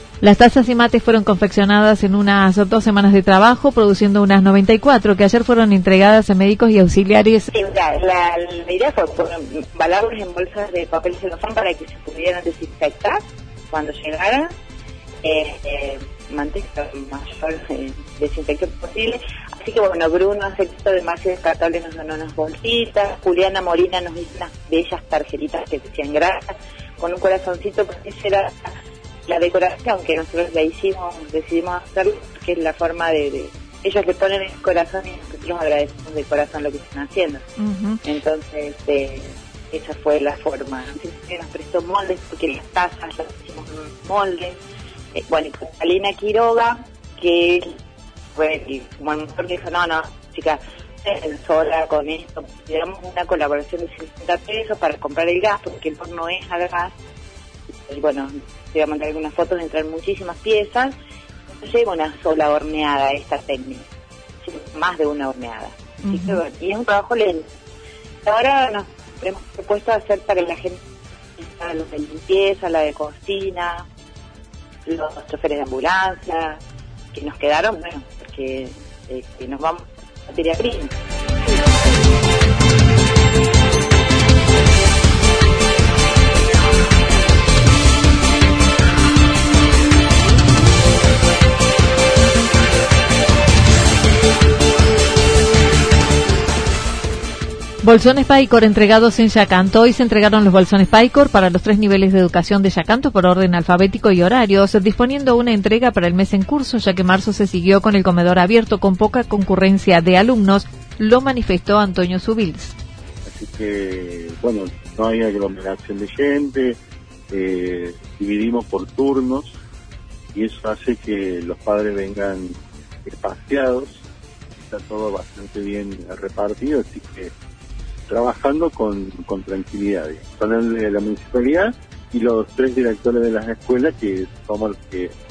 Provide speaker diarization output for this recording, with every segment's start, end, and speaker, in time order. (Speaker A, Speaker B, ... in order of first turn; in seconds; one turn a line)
Speaker A: 0.2-7.5
Speaker B: 7.5-14.5
Speaker B: 15.2-28.7
Speaker B: 29.2-37.4
Speaker A: 37.6-38.0
Speaker B: 38.0-44.6
Speaker B: 45.1-47.8
Speaker B: 48.3-56.9
Speaker B: 57.8-61.0
Speaker B: 61.5-63.8
Speaker B: 64.4-67.5
Speaker A: 66.0-66.4
Speaker B: 68.2-70.8
Speaker B: 71.4-73.8
Speaker B: 74.8-76.6
Speaker B: 77.1-80.9
Speaker A: 97.8-112.8
Speaker C: 113.2-116.8
Speaker C: 117.3-119.6
Speaker C: 120.3-124.0
Speaker C: 124.7-127.3
Speaker C: 128.1-135.1